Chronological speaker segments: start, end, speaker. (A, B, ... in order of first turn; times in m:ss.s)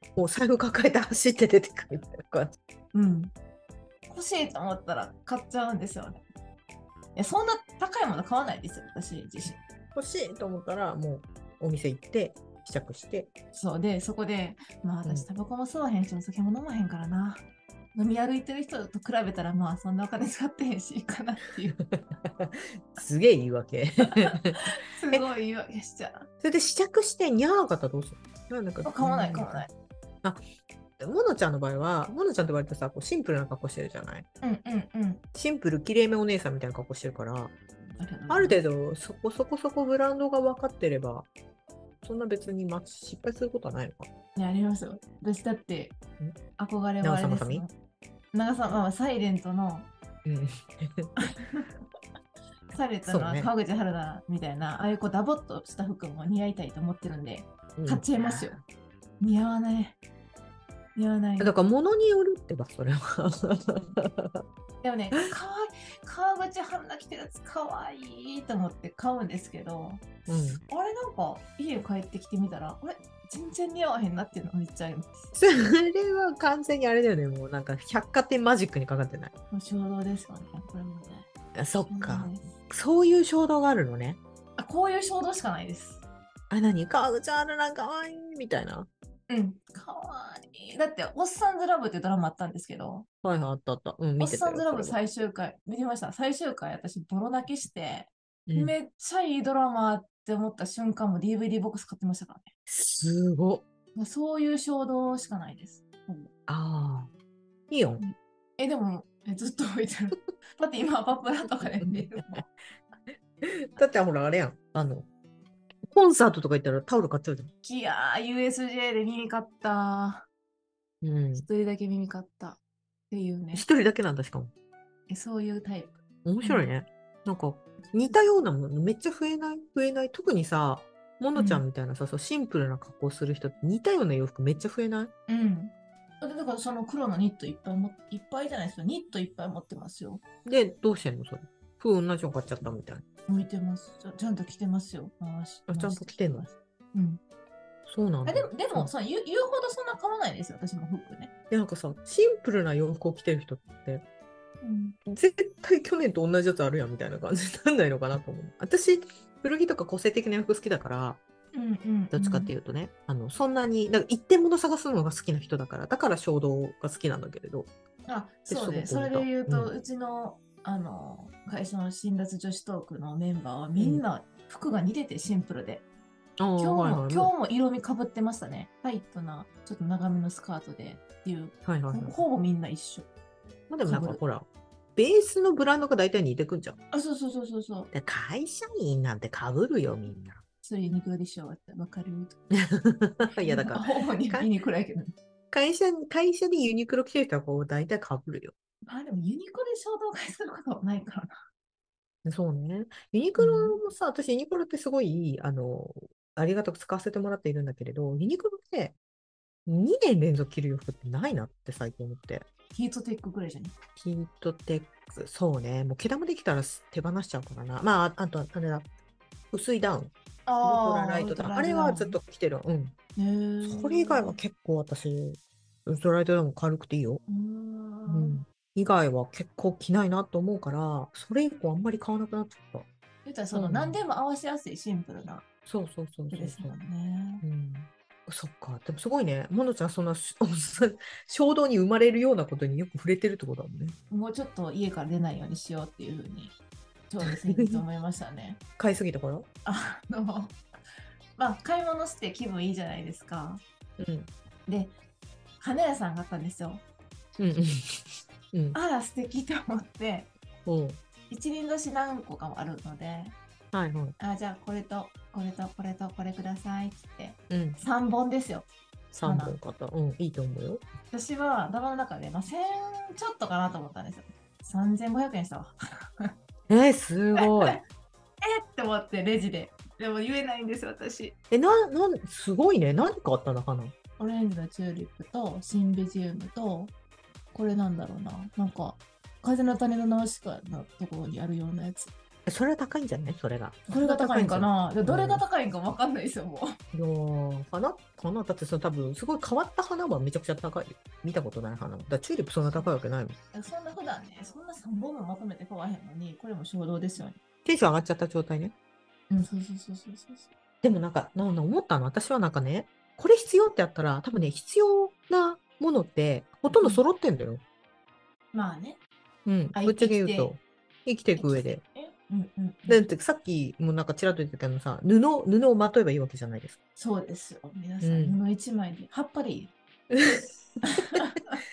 0:00.2-0:02.6 A
0:02.9-0:03.3 B
0:04.1-0:06.2 B
0:07.2-0:09.6 B
0:09.9-0:13.3 A
0:13.5-0:17.4 B
0:18.0-0:21.8 B
0:21.8-0:25.3 A
0:24.3-0:26.3 B
0:26.4-0:29.7 A
0:28.8-0:29.7 B
0:31.0-0:34.3 A
0:34.4-0:35.2 B
0:35.3-0:37.5 A
0:37.8-0:38.6 B
0:38.3-0:41.3 A
0:42.0-0:44.1 A
0:44.4-0:46.0 B
0:46.6-0:47.7 B
0:47.0-0:47.6 A
0:48.3-0:49.9 B
0:50.2-0:51.1 A
0:51.2-0:51.7 B
0:52.7-0:58.6 B
0:53.1-0:53.5 A
0:57.8-0:58.6 A
0:59.2-1:00.0 B
1:01.0-1:01.5 B
1:01.4-1:04.4 A
1:04.8-1:10.1 B
1:10.3-1:10.6 A
1:10.7-1:15.3 B
1:15.4-1:19.3 A
1:19.5-1:21.3 B
1:21.6-1:24.2 A
1:21.9-1:22.5 B
1:24.6-1:26.0 B
1:26.5-1:28.9 A
1:29.3-1:33.1 B
1:33.2-1:35.0 A
1:34.2-1:42.5 B
1:38.5-1:38.8 A
1:42.7-1:43.6 A
1:44.0-1:46.3 B
1:46.5-1:47.1 A
1:47.7-1:48.0 A
1:48.0-1:52.4 B
1:51.8-1:52.4 A
1:53.4-1:55.1 A
1:55.9-1:57.5 A
1:57.6-2:00.3 B
2:01.0-2:01.5 A
2:01.4-2:02.6 B
2:03.1-2:03.6 B
2:03.5-2:04.5 A
2:05.1-2:06.7 B
2:06.2-2:15.1 A
2:11.4-2:11.6 B
2:15.3-2:20.2 B
2:20.4-2:23.0 A
2:23.3-2:27.2 B
2:25.7-2:26.5 A
2:27.9-2:28.9 A
2:28.2-2:31.3 B
2:31.5-2:34.0 A
2:34.6-2:35.0 B
2:35.1-2:41.2 A
2:41.5-2:42.5 B
2:42.1-2:47.7 A
2:48.1-2:55.8 B
2:48.5-2:49.7 A
2:53.8-2:54.0 A
2:56.4-2:57.3 A
2:56.6-3:03.1 B
3:01.6-3:02.2 A
3:03.7-3:06.8 A
3:03.9-3:04.2 B
3:06.9-3:07.9 B
3:07.9-3:10.4 A
3:10.6-3:12.5 B
3:12.5-3:14.5 A
3:13.4-3:15.1 B
3:15.5-3:18.5 A
3:18.8-3:21.4 B
3:22.2-3:28.9 A
3:23.4-3:23.8 B
3:29.7-3:32.5 A
3:32.7-3:33.8 B
3:34.0-3:38.9 A
3:39.5-3:43.0 A
3:40.5-3:42.2 B
3:43.2-3:44.4 B
3:43.6-3:47.2 A
3:47.3-3:48.4 B
3:48.1-3:52.9 A
3:53.2-3:55.4 B
3:53.5-3:54.0 A
3:55.7-3:56.8 A
3:56.3-3:57.4 B
3:57.4-4:04.0 A
4:04.1-4:06.6 B
4:07.1-4:08.6 B
4:07.2-4:07.8 A
4:08.8-4:09.5 A
4:09.6-4:10.6 B
4:11.4-4:13.6 B
4:14.0-4:14.3 A
4:14.7-4:15.0 B
4:15.6-4:16.8 B
4:17.4-4:18.8 A
4:18.7-4:20.3 B
4:20.7-4:21.0 A
4:21.3-4:23.4 B
4:23.7-4:24.2 A
4:24.2-4:28.7 B
4:27.5-4:27.8 A
4:29.1-4:30.8 A
4:29.2-4:29.6 B
4:31.1-4:36.3 B
4:36.7-4:37.8 A
4:37.4-4:37.8 B
4:38.4-4:41.4 B
4:41.5-4:43.9 A
4:44.2-4:46.9 B
4:47.5-4:52.1 B
4:52.5-4:55.4 A
4:53.9-4:56.8 B
4:56.9-5:03.4 A
5:03.5-5:07.4 B
5:07.6-5:08.7 A
5:09.3-5:10.5 B
5:10.8-5:17.6 A
5:16.7-5:17.0 B
5:18.5-5:19.0 B
5:19.5-5:21.8 A
5:19.7-5:20.5 B
5:21.4-5:23.0 B
5:22.9-5:26.8 A
5:27.0-5:29.7 B
5:28.0-5:28.4 A
5:30.1-5:30.5 A
5:30.8-5:31.6 B